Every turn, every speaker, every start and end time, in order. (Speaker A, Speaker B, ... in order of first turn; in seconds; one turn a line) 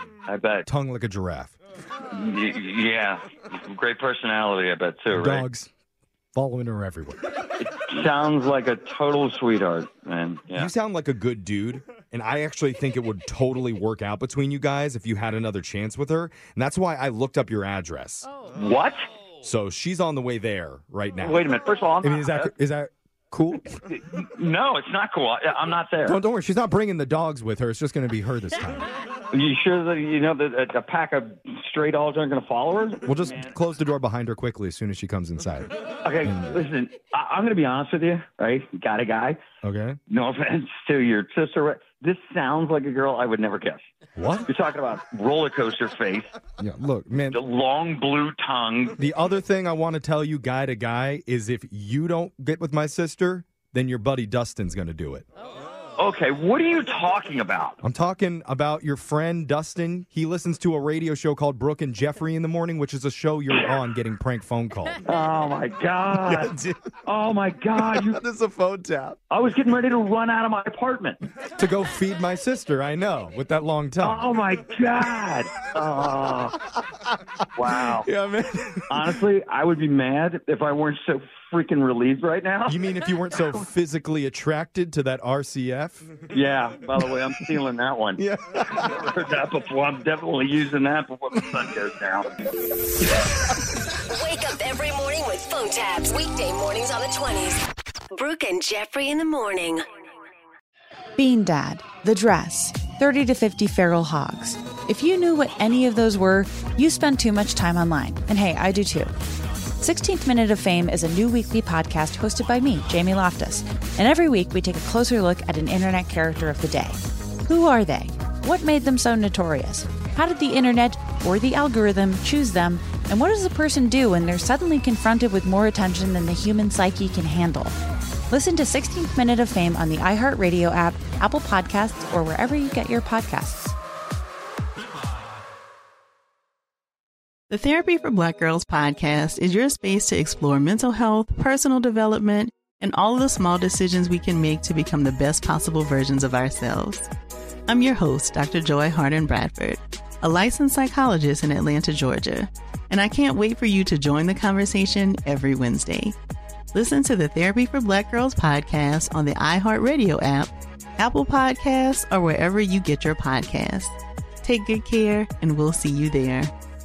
Speaker A: 0.3-0.7
Speaker B: 0.7-1.5
Speaker A: 2.1-5.5
Speaker B: 5.1-5.7
Speaker B: 6.3-7.3
Speaker A: 7.6-10.7
Speaker B: 10.5-18.3
Speaker A: 18.6-19.1
Speaker B: 19.4-21.5
Speaker A: 21.2-22.5
Speaker B: 22.0-23.8
Speaker A: 23.9-26.2
Speaker B: 26.0-28.9
Speaker A: 29.3-33.4
Speaker B: 33.0-36.6
Speaker A: 36.0-39.4
Speaker B: 39.6-40.0
Speaker A: 40.1-43.8
Speaker B: 44.1-44.5
Speaker A: 44.5-46.3
Speaker B: 46.6-47.4
Speaker A: 47.3-49.0
Speaker B: 49.0-55.2
Speaker A: 56.0-57.8
Speaker B: 57.8-65.0
Speaker A: 65.0-66.5
Speaker B: 66.1-66.8
Speaker A: 67.0-68.2
Speaker B: 67.8-69.2
Speaker A: 69.3-71.2
Speaker B: 71.6-74.3
Speaker A: 74.0-76.6
Speaker A: 77.5-78.1
Speaker B: 77.7-79.2
Speaker A: 78.9-82.8
Speaker B: 82.7-86.1
Speaker A: 86.3-92.3
Speaker B: 87.0-87.6
Speaker B: 88.2-88.9
Speaker C: 94.1-99.8
Speaker D: 101.2-109.1
Speaker D: 109.8-127.8
Speaker D: 128.3-133.7
Speaker E: 137.5-147.1
Speaker E: 147.7-156.2
Speaker E: 156.7-166.5